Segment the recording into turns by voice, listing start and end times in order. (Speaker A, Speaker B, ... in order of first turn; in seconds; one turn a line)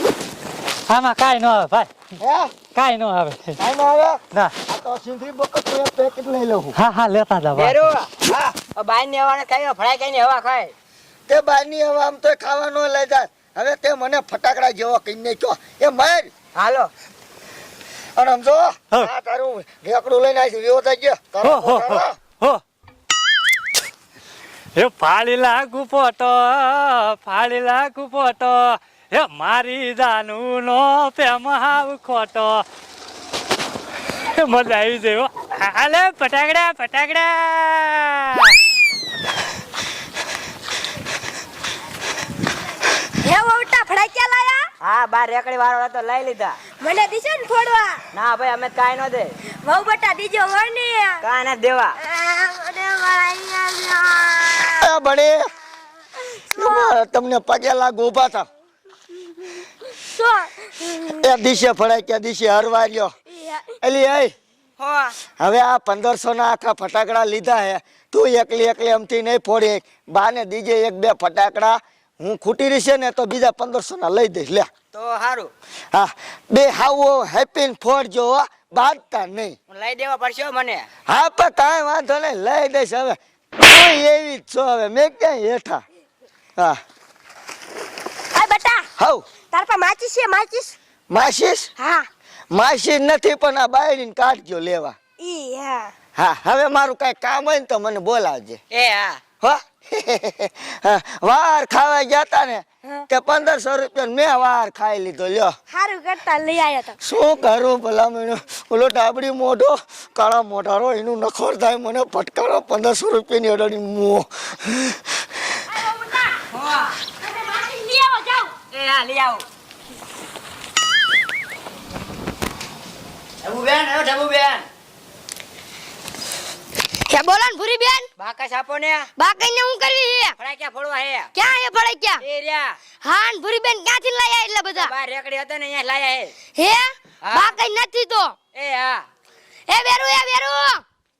Speaker A: 0.9-1.9
Speaker B: 2.2-2.5
Speaker A: 2.7-3.6
Speaker B: 3.6-6.8
Speaker A: 6.8-7.8
Speaker C: 7.5-8.1
Speaker B: 8.2-8.5
Speaker C: 8.7-10.7
Speaker B: 11.3-16.3
Speaker C: 16.5-16.9
Speaker B: 18.1-22.1
Speaker A: 21.4-22.6
Speaker A: 24.8-32.6
Speaker A: 34.1-38.5
Speaker D: 43.2-44.7
Speaker C: 44.8-46.6
Speaker D: 46.8-48.0
Speaker C: 48.1-49.4
Speaker D: 49.6-51.2
Speaker C: 51.2-51.9
Speaker D: 52.0-54.8
Speaker B: 54.6-55.4
Speaker D: 56.3-56.9
Speaker B: 56.5-58.5
Speaker D: 60.0-61.2
Speaker B: 61.0-63.1
Speaker D: 63.3-63.7
Speaker B: 63.8-64.3
Speaker C: 64.8-65.1
Speaker B: 65.4-74.7
Speaker C: 74.9-75.5
Speaker B: 75.9-79.5
Speaker C: 79.7-80.9
Speaker B: 81.1-85.8
Speaker D: 88.3-88.9
Speaker B: 89.0-89.2
Speaker D: 89.5-90.7
Speaker B: 91.1-91.7
Speaker D: 91.8-92.1
Speaker B: 92.5-94.9
Speaker D: 95.2-95.9
Speaker B: 96.2-98.6
Speaker C: 98.7-99.2
Speaker B: 99.4-105.5
Speaker D: 105.7-107.0
Speaker B: 107.0-115.2
Speaker D: 115.8-116.4
Speaker C: 116.5-117.0
Speaker D: 117.2-118.5
Speaker C: 118.7-119.4
Speaker C: 123.4-124.7
Speaker D: 127.1-128.1
Speaker C: 128.2-129.1
Speaker D: 129.2-130.3
Speaker C: 130.4-131.3
Speaker D: 131.3-132.2
Speaker C: 132.2-132.8
Speaker D: 133.0-134.9
Speaker C: 134.7-136.3
Speaker D: 136.5-138.3
Speaker C: 137.2-137.6
Speaker C: 138.5-139.0
Speaker D: 139.7-140.8